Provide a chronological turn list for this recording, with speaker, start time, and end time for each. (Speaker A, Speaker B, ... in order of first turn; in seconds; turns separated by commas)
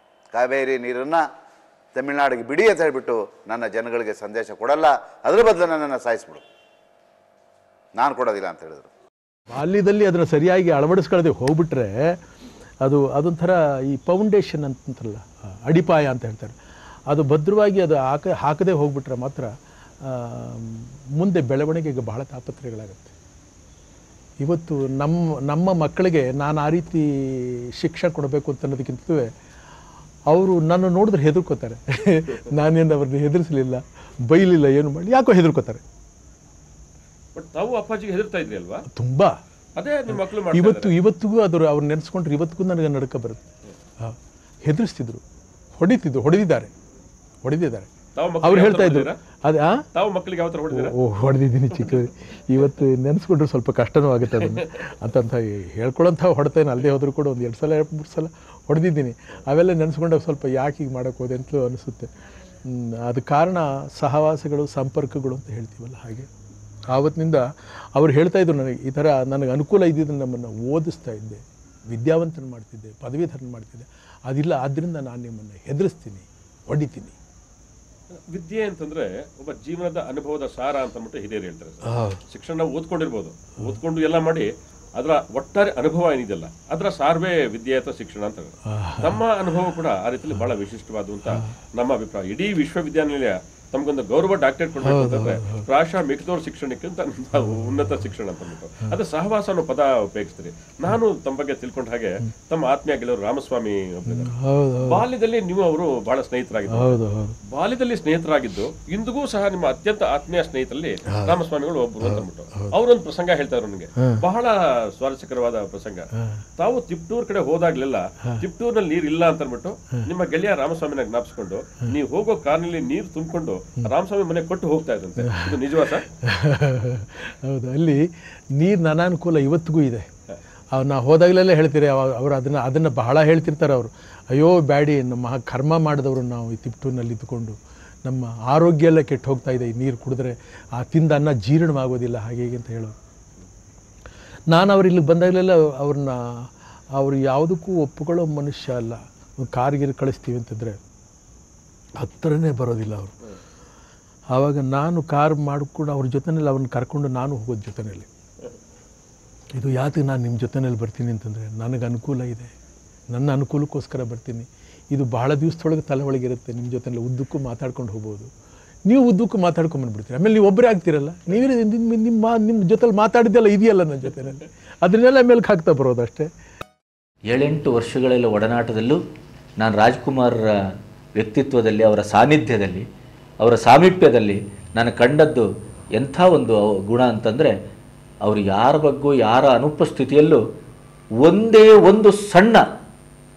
Speaker A: 0.3-1.3, Speaker A: 1.9-6.4, Speaker A: 8.0-8.9, Speaker B: 9.5-11.9, Speaker B: 12.8-16.5, Speaker B: 17.1-19.5, Speaker B: 20.0-23.1, Speaker B: 24.4-29.3, Speaker B: 30.3-35.8, Speaker C: 37.3-38.8, Speaker B: 38.9-39.4, Speaker C: 39.8-40.9, Speaker B: 40.1-43.4, Speaker B: 44.0-45.2, Speaker B: 45.8-46.7, Speaker B: 47.4-47.9, Speaker C: 48.2-49.2, Speaker B: 48.4-49.8, Speaker C: 49.9-50.9, Speaker B: 50.7-62.1, Speaker B: 62.7-66.3, Speaker B: 66.9-67.4, Speaker B: 68.0-77.2, Speaker C: 78.3-104.3, Speaker B: 81.9-82.2, Speaker B: 88.7-89.2, Speaker B: 94.8-95.7, Speaker B: 104.2-105.0, Speaker C: 104.8-107.0, Speaker B: 106.7-107.3, Speaker C: 107.5-126.0, Speaker B: 111.1-111.3, Speaker B: 112.0-112.7, Speaker B: 125.2-125.6, Speaker B: 126.2-128.0, Speaker B: 128.6-130.1, Speaker B: 130.7-142.9, Speaker B: 144.5-150.8, Speaker B: 152.0-153.1, Speaker B: 154.3-158.1, Speaker B: 159.6-162.5, Speaker B: 163.1-168.3, Speaker B: 168.9-176.3, Speaker D: 177.3-179.0, Speaker D: 179.6-180.4, Speaker D: 181.2-182.8, Speaker D: 183.4-185.4, Speaker D: 186.0-187.5, Speaker D: 188.2-190.4, Speaker D: 191.2-192.6